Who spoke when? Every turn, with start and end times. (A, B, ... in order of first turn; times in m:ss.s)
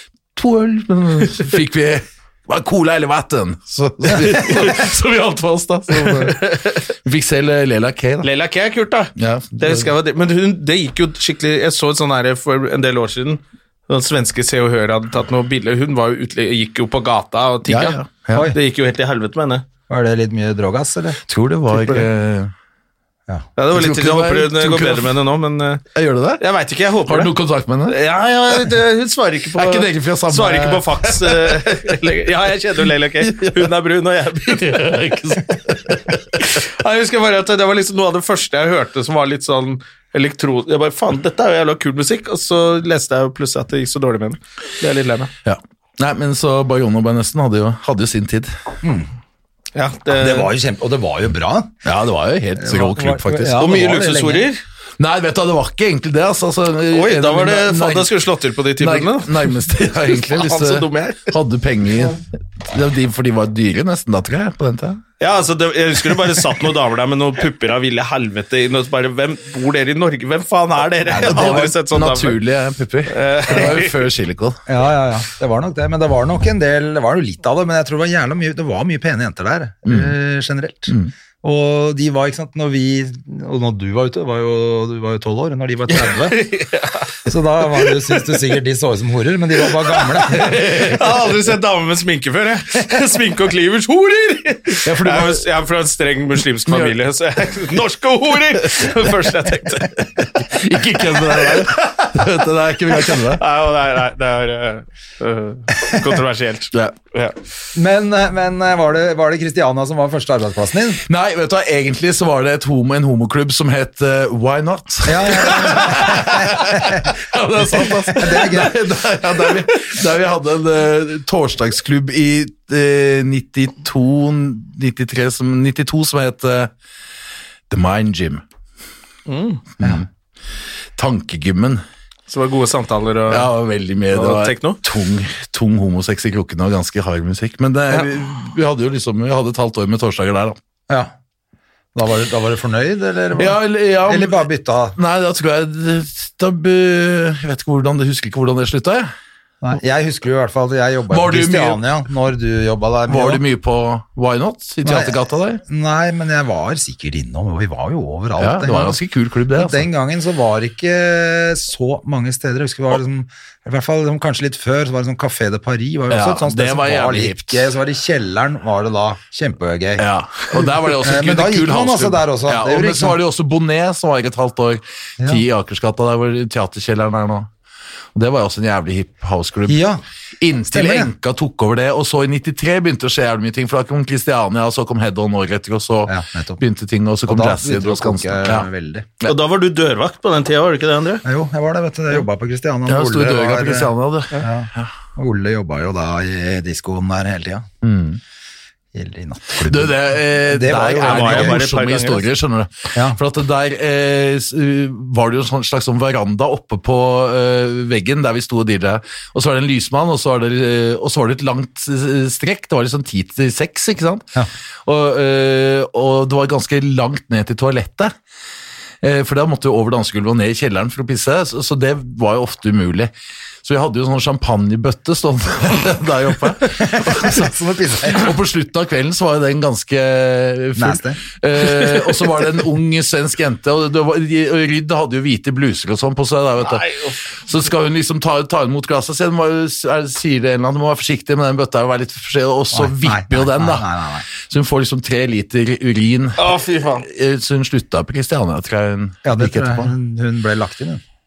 0:00.4-0:08.3 A
0:04.2-0:04.8 B
0:06.0-0:06.8 B
0:08.2-0:19.6 B
0:09.2-0:09.9 A
0:17.7-0:18.5 A
0:18.3-0:18.6 C
0:19.9-0:22.0 C
0:21.3-0:22.5 A
0:23.6-0:25.8 B
0:23.7-0:25.2 A
0:25.9-0:26.4 A
0:26.4-0:27.3 B
0:27.0-0:28.0 A
0:27.9-0:35.4 B
0:29.5-0:32.0 A
0:33.2-0:33.7 A
0:34.4-0:36.4 A
0:36.4-0:45.3 B
0:45.4-0:48.5 A
0:48.8-0:49.1 C
0:49.8-0:50.5 B
0:50.2-0:51.8 C
0:51.8-0:53.8 A
0:52.6-0:54.5 C
0:53.6-0:54.6 B
0:55.0-0:58.1 A
0:56.9-1:01.3 B
0:58.8-1:05.0 A
1:05.2-1:12.4 B
1:11.1-1:11.7 C
1:11.2-1:14.6 A
1:13.1-1:14.0 B
1:14.7-1:26.4 C
1:19.9-1:20.1 A
1:25.9-1:27.1 B
1:27.3-1:30.6 C
1:27.7-1:28.4 B
1:29.8-1:40.0 B
1:30.3-1:31.2 A
1:34.8-1:35.4 A
1:36.7-1:37.0 A
1:40.2-1:43.4 A
1:41.2-1:41.8 B
1:43.0-1:47.4 B
1:47.8-1:51.0 C
1:51.0-2:06.7 A
1:55.1-1:57.2 C
1:57.8-1:58.8 C
2:07.7-2:08.4 A
2:09.3-2:09.6 B
2:09.8-2:10.1 A
2:11.0-2:11.8 A
2:12.3-2:13.5 B
2:13.3-2:20.6 A
2:14.1-2:14.8 B
2:22.0-2:25.0 C
2:23.4-2:29.1 A
2:29.6-2:33.4 C
2:31.1-2:31.8 A
2:33.1-2:35.6 A
2:34.8-2:39.0 C
2:38.4-2:39.9 A
2:39.6-2:53.2 C
2:46.1-2:47.7 A
2:50.0-2:57.5 A
2:58.2-2:59.9 A
2:59.7-3:00.0 C
3:00.4-3:08.7 A
3:00.7-3:01.1 C
3:06.1-3:06.6 C
3:07.3-3:09.1 C
3:09.2-3:11.2 B
3:11.2-3:17.7 C
3:12.9-3:14.9 A
3:17.8-3:18.2 A
3:18.9-3:21.6 C
3:19.6-3:34.3 A
3:21.0-3:22.3 B
3:22.9-3:23.2 C
3:34.8-3:38.1 A
3:39.0-3:43.1 A
3:43.6-3:56.8 A
3:46.7-3:48.4 C
3:50.8-3:51.2 C
3:56.6-3:57.2 B
3:57.5-4:09.9 A
4:02.7-4:04.3 C
4:06.4-4:07.1 B
4:09.2-4:11.0 C